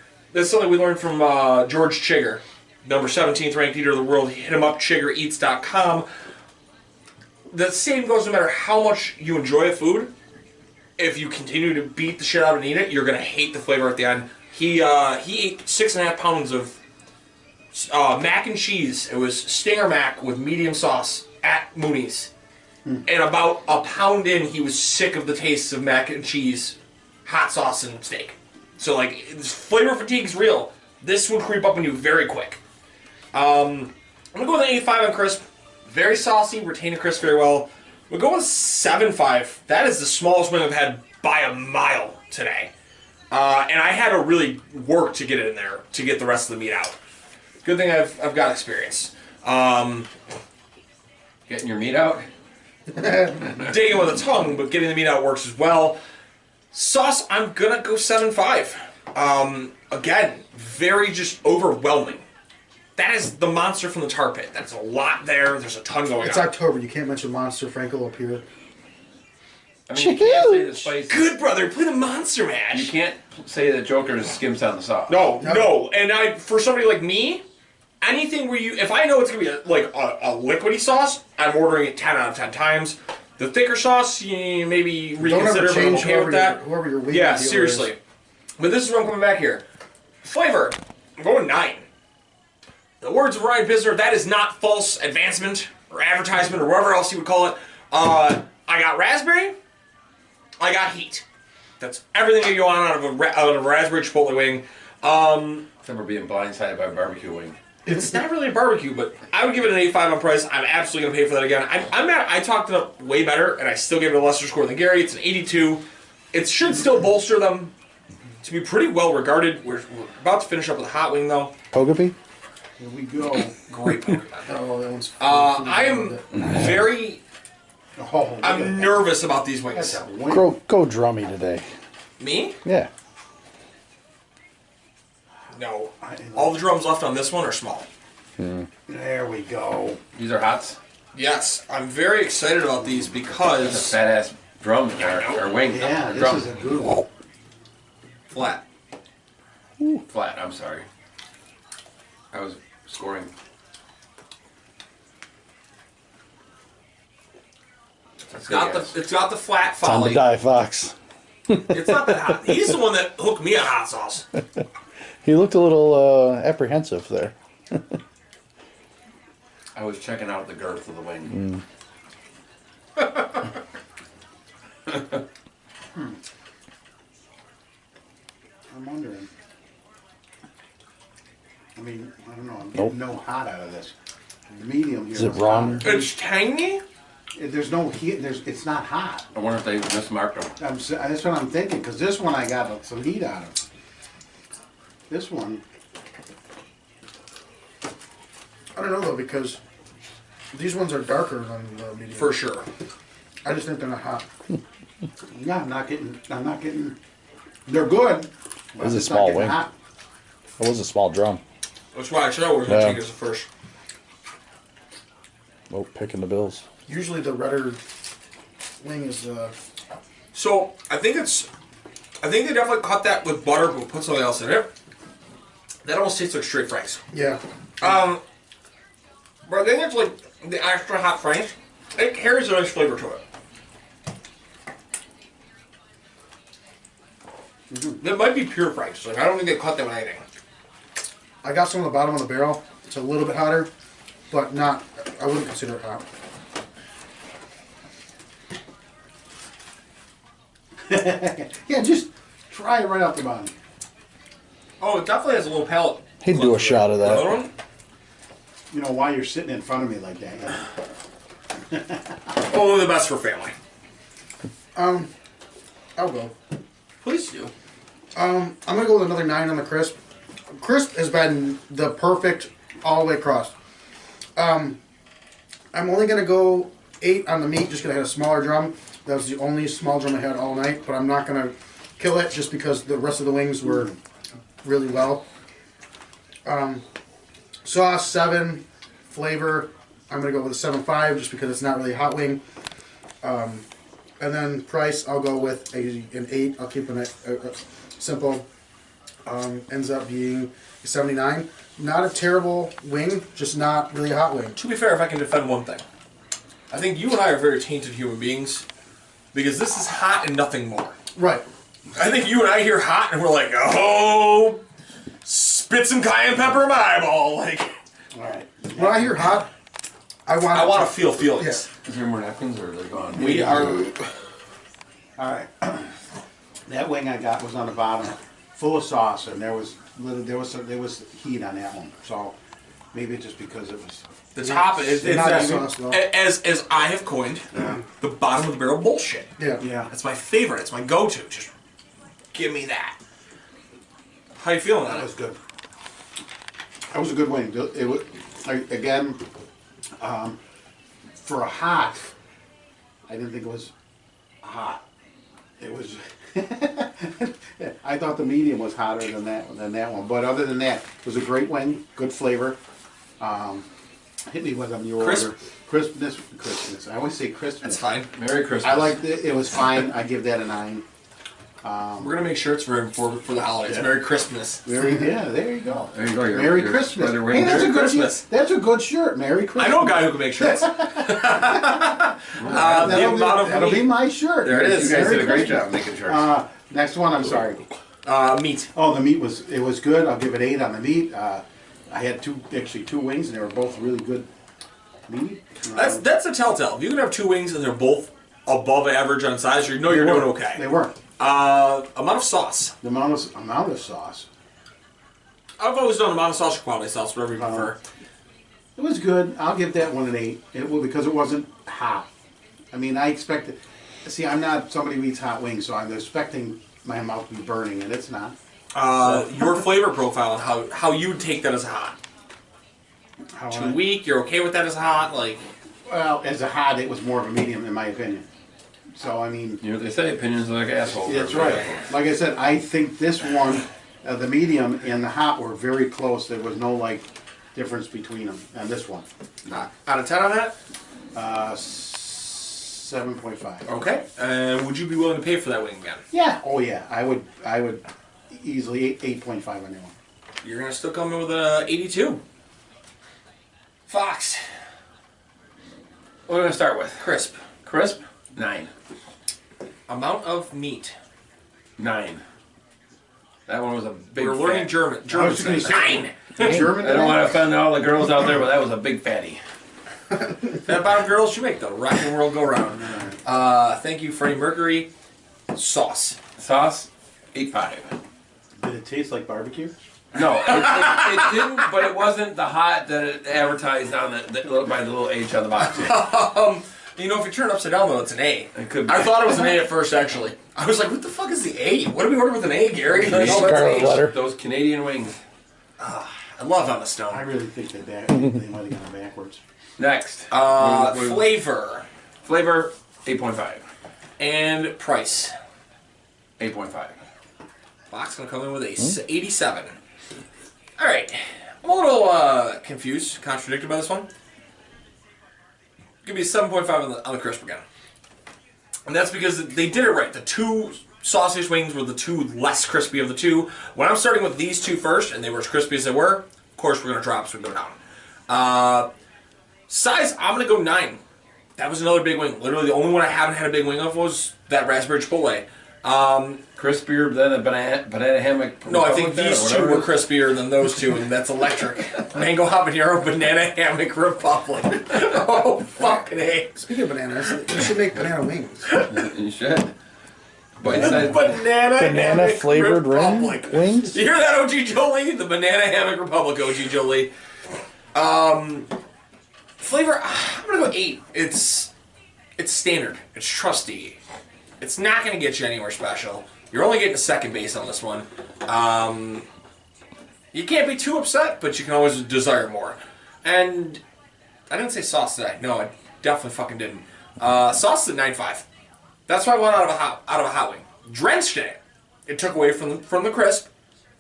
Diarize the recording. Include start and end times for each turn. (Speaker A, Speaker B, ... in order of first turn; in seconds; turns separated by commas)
Speaker A: 0.3-6.1, Speaker A: 7.5-10.1, Speaker A: 11.0-16.8, Speaker A: 17.7-22.3, Speaker A: 23.1-32.6, Speaker A: 33.3-42.7, Speaker A: 43.3-47.0, Speaker A: 47.6-50.1, Speaker B: 51.5-52.3, Speaker A: 53.5-56.0, Speaker A: 56.7-62.2, Speaker A: 63.0-66.5, Speaker C: 66.2-68.4, Speaker B: 69.9-71.3, Speaker D: 70.0-70.8, Speaker A: 71.1-72.9, Speaker B: 72.7-75.3, Speaker A: 75.1-77.4, Speaker C: 75.4-75.7, Speaker A: 78.0-88.0, Speaker C: 85.2-87.9, Speaker A: 88.6-89.6, Speaker A: 90.2-91.8, Speaker A: 93.0-99.5, Speaker A: 100.6-101.2, Speaker A: 101.8-105.7, Speaker B: 105.8-107.6, Speaker A: 107.9-117.7, Speaker A: 118.4-121.5, Speaker D: 121.7-122.2, Speaker E: 122.8-123.6, Speaker A: 123.5-124.5, Speaker C: 124.5-126.3, Speaker A: 125.2-127.2, Speaker E: 128.0-129.1, Speaker A: 128.4-130.1, Speaker E: 129.7-130.5, Speaker D: 130.3-131.7, Speaker A: 132.2-132.6, Speaker A: 135.5-137.9, Speaker E: 136.0-136.6, Speaker D: 138.4-138.7, Speaker E: 138.9-140.0, Speaker B: 140.2-140.8, Speaker A: 141.1-144.0, Speaker B: 143.6-146.5, Speaker A: 145.1-145.4, Speaker E: 145.7-147.1, Speaker A: 148.3-148.6, Speaker B: 150.1-150.9, Speaker B: 152.3-153.3, Speaker B: 158.3-159.0, Speaker A: 158.5-160.2, Speaker D: 159.8-160.9, Speaker D: 161.5-162.1, Speaker A: 161.7-164.2, Speaker D: 165.2-167.8, Speaker B: 169.8-171.4, Speaker D: 171.3-171.6, Speaker B: 174.9-175.2, Speaker E: 178.7-179.3, Speaker E: 181.8-183.9, Speaker E: 184.5-186.1, Speaker D: 185.2-185.9, Speaker A: 185.8-186.8, Speaker E: 187.4-189.3, Speaker B: 189.3-190.5, Speaker E: 190.6-193.6, Speaker E: 195.1-195.6, Speaker C: 198.8-199.6, Speaker C: 200.5-202.4, Speaker A: 202.2-202.7, Speaker C: 203.4-204.3, Speaker E: 205.3-207.0, Speaker E: 207.7-209.7, Speaker D: 208.8-209.6, Speaker D: 210.6-211.4, Speaker A: 211.9-213.5, Speaker D: 212.7-213.0, Speaker D: 215.7-216.6, Speaker C: 216.9-217.8, Speaker C: 218.8-219.5, Speaker A: 220.3-221.5, Speaker A: 222.2-224.7, Speaker A: 225.8-227.0, Speaker C: 227.1-227.4, Speaker A: 227.8-228.2, Speaker A: 229.5-233.2, Speaker E: 237.7-238.0, Speaker A: 238.0-240.2, Speaker C: 241.4-243.7, Speaker C: 244.3-246.1, Speaker E: 250.9-253.5, Speaker A: 254.8-257.5, Speaker D: 256.2-257.5, Speaker E: 258.7-260.7, Speaker E: 261.7-262.2, Speaker A: 262.4-263.5, Speaker C: 264.8-265.1, Speaker C: 266.0-266.3, Speaker A: 267.0-267.5, Speaker C: 268.1-270.0, Speaker C: 270.5-273.5, Speaker C: 274.4-274.8, Speaker C: 275.7-283.9, Speaker C: 284.6-285.3, Speaker C: 286.4-286.8, Speaker C: 287.6-292.4, Speaker C: 293.2-293.7, Speaker C: 294.2-298.5, Speaker C: 299.3-304.6, Speaker A: 304.6-305.8, Speaker A: 306.7-308.6, Speaker A: 309.3-311.0, Speaker C: 311.2-311.4, Speaker A: 311.9-314.6, Speaker A: 315.2-317.7, Speaker E: 318.1-319.2, Speaker C: 318.8-319.5, Speaker C: 320.3-321.6, Speaker A: 320.5-321.7, Speaker B: 321.8-323.7, Speaker E: 323.2-323.9, Speaker A: 323.2-324.0, Speaker E: 325.2-325.9, Speaker E: 326.7-332.4, Speaker E: 332.9-334.0, Speaker A: 334.4-337.5, Speaker C: 334.4-336.0, Speaker A: 338.0-339.3, Speaker C: 339.4-339.6, Speaker E: 339.6-339.9, Speaker A: 339.9-341.5, Speaker A: 342.3-343.0, Speaker A: 344.4-345.1, Speaker E: 344.9-345.4, Speaker E: 346.9-349.2, Speaker E: 350.0-350.4, Speaker E: 351.2-352.1, Speaker E: 353.1-353.7, Speaker E: 354.4-354.8, Speaker E: 355.6-362.6, Speaker E: 363.2-363.7, Speaker E: 364.3-367.8, Speaker A: 365.0-365.3, Speaker A: 367.6-368.1, Speaker B: 368.1-369.0, Speaker E: 368.6-370.8, Speaker E: 371.6-372.2, Speaker A: 372.0-374.6, Speaker E: 373.7-374.0, Speaker E: 374.6-381.7, Speaker B: 375.9-377.8, Speaker A: 377.3-378.2, Speaker A: 379.6-384.0, Speaker B: 382.4-383.2, Speaker E: 382.4-387.6, Speaker B: 384.4-386.3, Speaker A: 388.0-388.7, Speaker E: 388.7-394.3, Speaker E: 395.1-396.0, Speaker A: 395.7-400.6, Speaker E: 399.9-401.0, Speaker A: 401.2-402.7, Speaker E: 402.8-404.3, Speaker A: 405.6-407.8, Speaker E: 407.4-407.7, Speaker E: 408.8-412.1, Speaker E: 412.7-418.4, Speaker A: 418.7-422.0, Speaker E: 423.3-423.8, Speaker A: 423.5-425.4, Speaker E: 425.9-428.2, Speaker E: 428.9-429.6, Speaker B: 429.6-431.9, Speaker E: 431.0-439.1, Speaker A: 439.5-440.6, Speaker E: 441.1-443.7, Speaker A: 443.7-446.0, Speaker E: 446.1-449.9, Speaker A: 450.4-452.2, Speaker A: 453.9-454.4, Speaker B: 456.3-457.1, Speaker A: 457.0-457.4, Speaker B: 457.6-458.7, Speaker A: 459.9-460.9, Speaker B: 461.8-462.2, Speaker B: 463.5-464.7, Speaker A: 464.2-466.2, Speaker E: 465.1-467.4, Speaker B: 466.4-469.4, Speaker A: 470.5-474.9, Speaker E: 472.8-473.1, Speaker A: 475.5-476.2, Speaker B: 476.4-477.9, Speaker E: 478.6-479.7, Speaker B: 480.1-486.0, Speaker A: 480.5-481.5, Speaker A: 485.6-494.0, Speaker B: 488.6-489.6, Speaker B: 492.9-495.2, Speaker D: 493.1-494.2, Speaker A: 495.8-497.3, Speaker E: 497.1-499.4, Speaker B: 499.8-501.3, Speaker A: 500.3-501.9, Speaker B: 502.2-503.6, Speaker A: 504.2-505.3, Speaker B: 506.4-506.9, Speaker A: 507.9-509.7, Speaker A: 510.8-514.1, Speaker A: 516.0-517.6, Speaker A: 518.9-527.8, Speaker A: 528.3-528.9, Speaker A: 529.7-531.0, Speaker A: 531.6-536.4, Speaker B: 536.6-540.0, Speaker A: 538.7-546.6, Speaker C: 546.5-548.7, Speaker B: 548.9-549.7, Speaker B: 550.6-551.3, Speaker A: 550.6-557.1, Speaker D: 551.7-554.0, Speaker A: 557.9-558.7, Speaker A: 559.6-561.7, Speaker A: 562.4-564.0, Speaker A: 564.6-569.3, Speaker A: 570.3-573.8, Speaker A: 574.5-578.5, Speaker A: 579.1-583.5